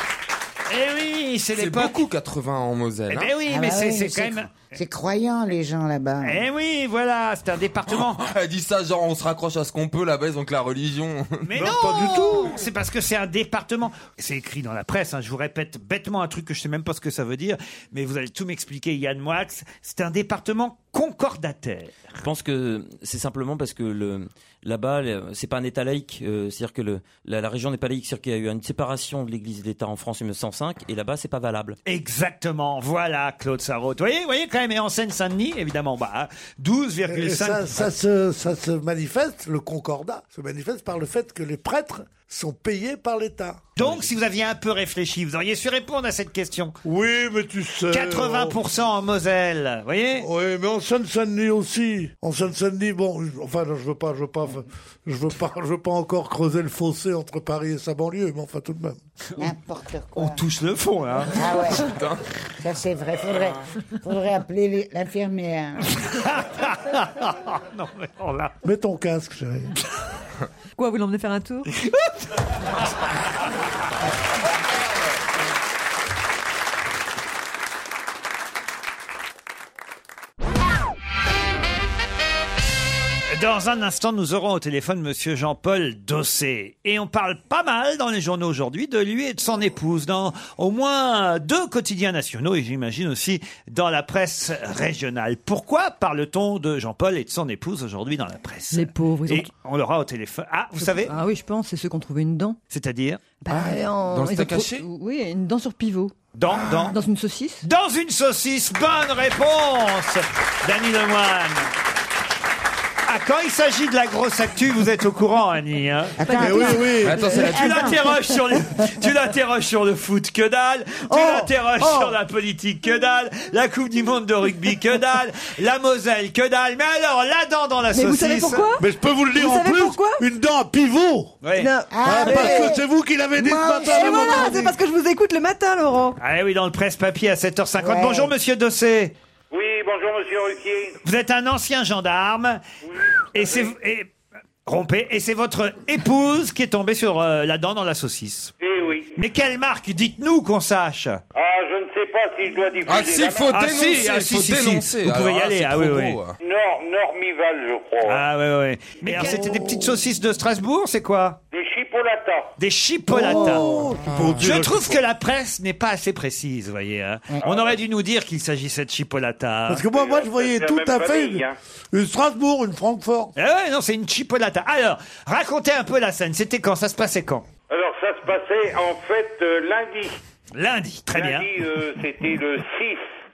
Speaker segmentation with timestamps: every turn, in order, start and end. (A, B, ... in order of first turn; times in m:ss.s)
0:00.7-0:02.0 A
0:01.6-0:03.3 B
0:03.1-0:04.6 A
0:03.5-0:06.4 C
0:06.2-0:08.2 A
0:08.1-0:11.5 B
0:11.4-0:22.1 A
0:11.6-0:12.6 D
0:22.2-0:31.8 E
0:31.8-0:37.9 A
0:37.1-0:44.0 D
0:43.8-0:46.8 A
0:46.8-0:48.6 D
0:47.9-0:50.3 A
0:50.2-0:59.0 D
0:59.4-1:00.4 C
1:00.2-1:01.5 A
1:01.3-1:01.9 C
1:01.8-1:02.2 B
1:02.6-1:05.9 C
1:06.0-1:08.6 A
1:08.6-1:09.7 D
1:10.8-1:11.7 F
1:23.3-1:41.1 A
1:38.7-1:39.5 F
1:40.8-1:42.6 F
1:42.7-1:43.3 A
1:43.4-1:46.2 F
1:43.5-1:44.9 B
1:46.3-1:47.0 A
1:46.9-1:47.6 F
1:47.6-1:51.7 A
1:53.1-1:56.2 A
1:56.2-1:58.0 C
1:56.2-1:58.2 F
1:56.3-1:57.2 D
1:57.0-1:57.8 B
1:57.4-2:08.7 A
2:01.1-2:02.1 F
2:07.9-2:10.2 F
2:08.8-2:11.4 D
2:11.4-2:11.7 A
2:11.6-2:12.8 F
2:11.9-2:14.7 C
2:12.0-2:14.7 D
2:13.8-2:16.2 F
2:16.2-2:19.1 A
2:17.8-2:18.3 C
2:19.5-2:21.0 G
2:21.0-2:22.6 A
2:23.3-2:24.1 A
2:23.4-2:23.7 G
2:24.7-2:28.5 A
2:28.6-2:29.1 G
2:29.2-2:31.2 A
2:31.4-2:33.6 G
2:32.9-2:36.4 B
2:33.5-2:36.2 A
2:36.4-2:38.2 G
2:38.1-2:41.4 A
2:39.0-2:40.0 D
2:41.5-2:42.5 G
2:42.6-2:43.7 A
2:43.1-2:45.0 D
2:43.3-2:43.9 C
2:44.0-2:44.5 B
2:44.4-2:49.8 A
2:47.4-2:47.7 G
2:49.7-2:53.3 D
2:49.9-2:51.6 G
2:53.4-2:57.4 A
2:57.7-3:00.2 G
3:00.5-3:01.5 A
3:01.1-3:03.0 G